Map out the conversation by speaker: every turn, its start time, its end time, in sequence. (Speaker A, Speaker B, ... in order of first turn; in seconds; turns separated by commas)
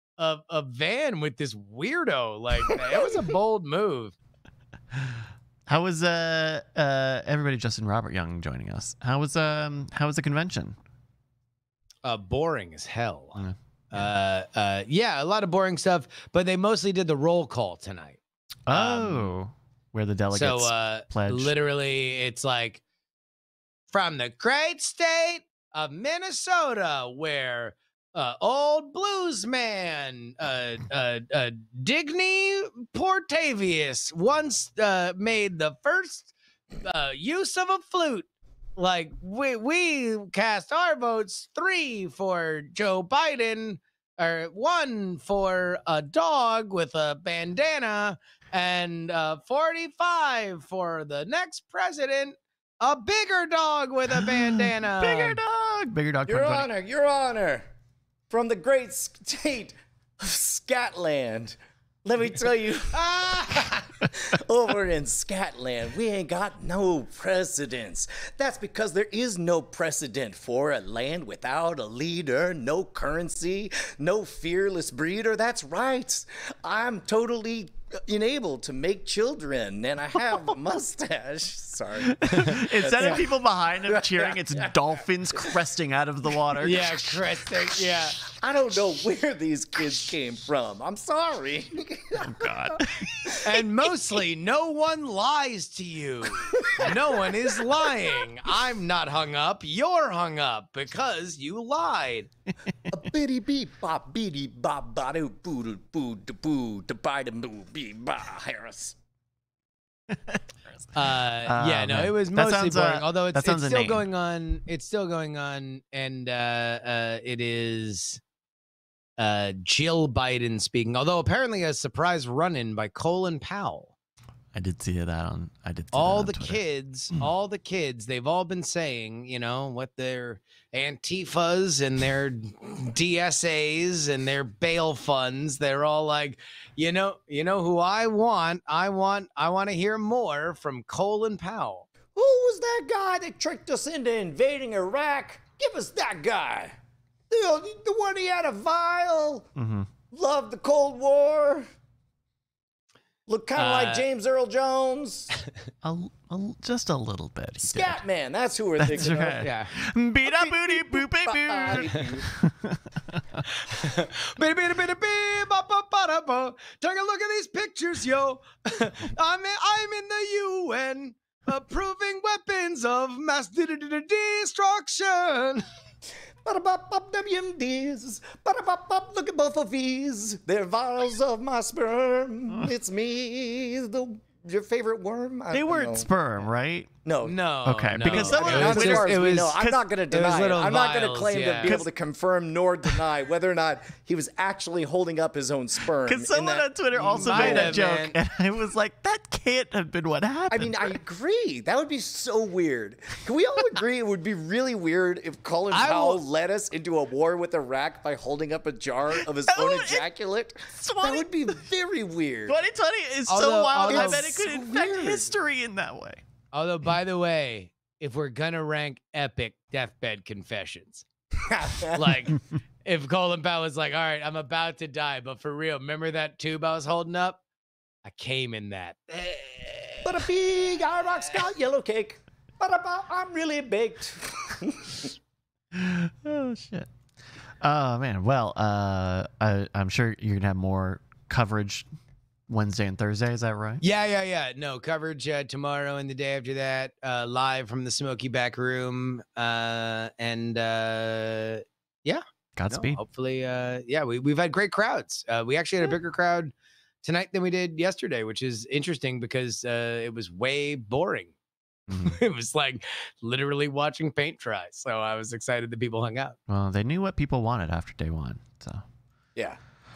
Speaker A: 0.2-4.1, Speaker B: 5.0-10.8, Speaker A: 12.0-19.3, Speaker B: 13.3-14.1, Speaker B: 18.6-21.5, Speaker A: 20.3-22.8, Speaker A: 23.9-55.4, Speaker B: 54.1-56.7, Speaker C: 56.3-57.7, Speaker C: 58.3-84.8, Speaker A: 62.9-63.9, Speaker B: 82.0-87.0, Speaker A: 86.6-88.2, Speaker C: 88.2-93.4, Speaker B: 92.2-93.6, Speaker A: 93.4-102.3, Speaker C: 96.4-98.2, Speaker C: 102.9-109.0, Speaker B: 110.1-114.0, Speaker A: 110.9-118.2, Speaker A: 119.2-123.9, Speaker B: 124.5-126.6, Speaker A: 125.9-141.9, Speaker C: 142.1-146.8, Speaker C: 147.3-149.5, Speaker B: 149.6-149.9, Speaker C: 150.1-151.7, Speaker C: 153.3-155.3, Speaker A: 153.6-154.1, Speaker B: 155.8-158.0, Speaker C: 157.6-159.4, Speaker B: 158.8-163.5, Speaker A: 159.4-159.7, Speaker C: 160.2-162.2, Speaker A: 163.7-175.6, Speaker C: 176.4-186.1, Speaker B: 185.5-186.9, Speaker C: 187.0-187.3, Speaker A: 187.2-189.5, Speaker B: 187.6-189.8, Speaker C: 188.0-197.8, Speaker A: 190.1-191.8, Speaker B: 196.1-201.0, Speaker A: 197.1-198.2, Speaker C: 200.5-212.6, Speaker A: 205.7-206.2, Speaker B: 209.5-210.1, Speaker B: 210.7-211.5, Speaker B: 212.5-216.2, Speaker A: 213.3-214.3, Speaker C: 213.8-215.3, Speaker A: 216.5-221.0, Speaker C: 221.4-222.2, Speaker A: 221.8-227.4, Speaker A: 228.0-230.2, Speaker C: 230.0-235.1, Speaker B: 235.7-236.9, Speaker B: 237.6-241.9, Speaker B: 242.5-243.8, Speaker A: 243.8-261.3, Speaker B: 252.6-253.0, Speaker B: 261.9-262.1, Speaker A: 262.0-266.4, Speaker B: 266.5-268.8